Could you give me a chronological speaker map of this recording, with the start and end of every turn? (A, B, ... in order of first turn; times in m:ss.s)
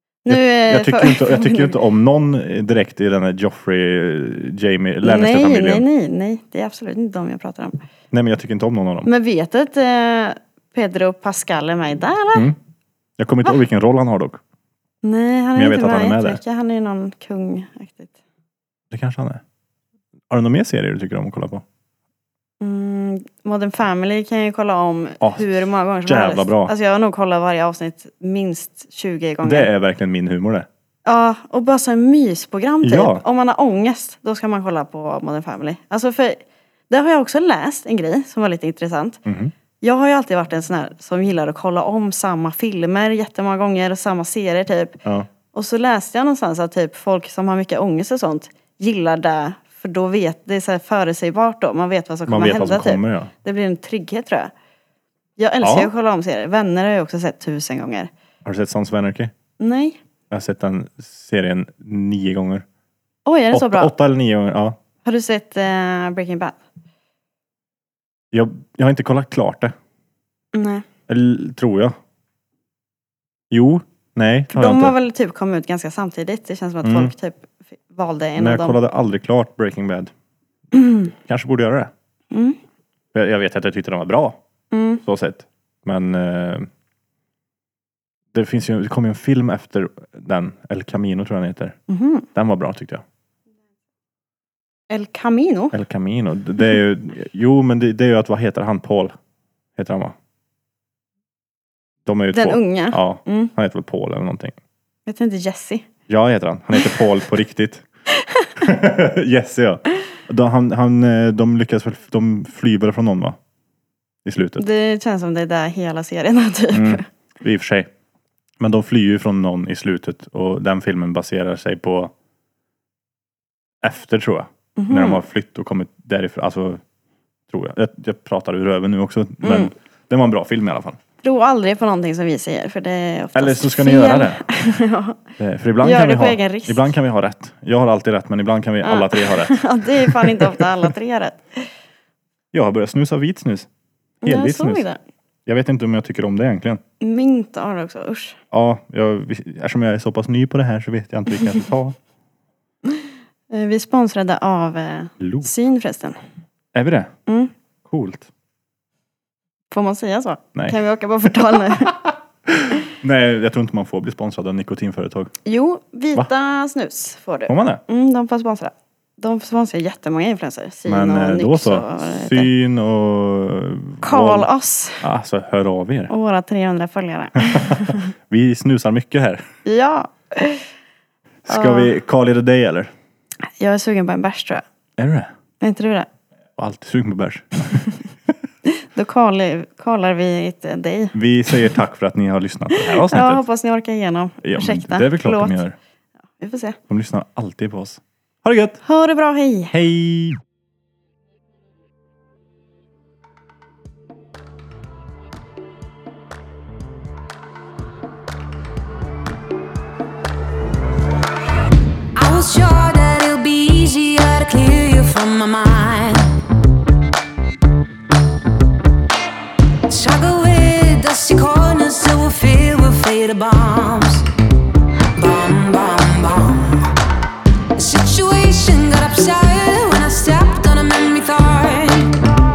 0:00.2-0:01.7 A
0:00.3-0:05.8 B
0:05.0-0:07.8 A
0:08.1-0:09.1 B
0:09.0-0:12.5 A
0:13.2-0:14.4 B
0:15.0-0:18.1 A
0:15.6-0:16.4 B
0:18.9-0:19.4 B
0:20.3-0:21.6 B
0:22.6-0:29.7 A
0:25.2-0:26.7 B
0:29.4-0:30.7 B
0:31.0-0:39.2 A
0:32.8-0:33.2 B
0:39.2-0:39.5 B
0:39.8-0:45.0 A
0:45.5-0:54.5 A
0:52.3-0:53.3 B
0:55.4-0:58.1 A
0:55.6-0:55.9 B
0:58.4-0:59.3 B
0:59.6-1:00.0 A
1:00.3-1:02.6 B
1:03.2-1:03.9 A
1:03.5-1:04.8 B
1:05.0-1:06.6 A
1:08.3-1:09.7 B
1:10.5-1:10.8 A
1:11.1-1:11.9 B
1:13.5-1:14.9 B
1:14.5-1:18.8 A
1:16.8-1:17.1 B
1:18.4-1:20.1 B
1:20.8-1:21.1 A
1:21.2-1:21.9 B
1:22.3-1:22.6 A
1:23.1-1:24.4 B
1:24.7-1:25.0 A
1:25.0-1:26.7 B
1:28.3-1:31.8 B
1:31.9-1:32.3 A
1:32.3-1:33.0 B
1:34.9-1:35.8 A
1:35.7-1:39.1 B
1:39.8-1:40.1 B
1:42.0-1:44.6 B
1:42.3-1:43.5 A
1:45.1-1:45.8 A
1:46.1-1:47.8 B
1:48.2-1:48.5 A
1:48.6-1:53.4 B
1:54.2-1:54.6 B
1:54.6-1:57.0 A
1:56.7-1:57.9 B
1:58.6-2:02.1 B
2:03.8-2:06.8 B
2:04.8-2:05.2 A
2:07.5-2:11.0 B
2:09.4-2:09.7 A
2:11.2-2:15.2 A
2:13.3-2:14.4 B
2:15.4-2:20.9 B
2:15.8-2:16.9 A
2:18.8-2:21.7 A
2:22.5-2:23.7 B
2:24.2-2:24.8 B
2:24.2-2:25.0 A
2:25.4-2:26.8 B
2:27.0-2:28.4 A
2:28.5-2:32.0 B
2:32.9-2:36.2 A
2:35.2-2:35.5 B
2:36.7-2:37.1 B
2:37.3-2:37.5 A
2:37.8-2:38.3 B
2:39.7-2:42.0 A
2:41.5-2:45.3 B
2:45.4-2:52.5 A
2:47.5-2:47.8 B
2:50.8-2:54.5 B
2:54.0-2:55.0 A
2:55.0-2:56.1 B
2:56.1-2:58.1 A
2:57.4-2:59.4 B
2:59.6-3:00.7 A
3:01.4-3:02.9 B
3:01.5-3:01.9 A
3:03.6-3:04.6 A
3:05.0-3:05.3 B
3:05.6-3:06.1 A
3:06.6-3:08.0 B
3:08.7-3:11.1 A
3:11.1-3:13.4 B
3:12.7-3:15.6 A
3:14.4-3:15.8 B
3:16.4-3:16.8 A
3:16.9-3:18.8 B
3:18.8-3:19.7 A
3:19.7-3:20.4 B
3:32.1-3:36.4 C
3:39.9-3:44.3 C
3:45.1-3:46.9 C
3:47.7-3:52.2 C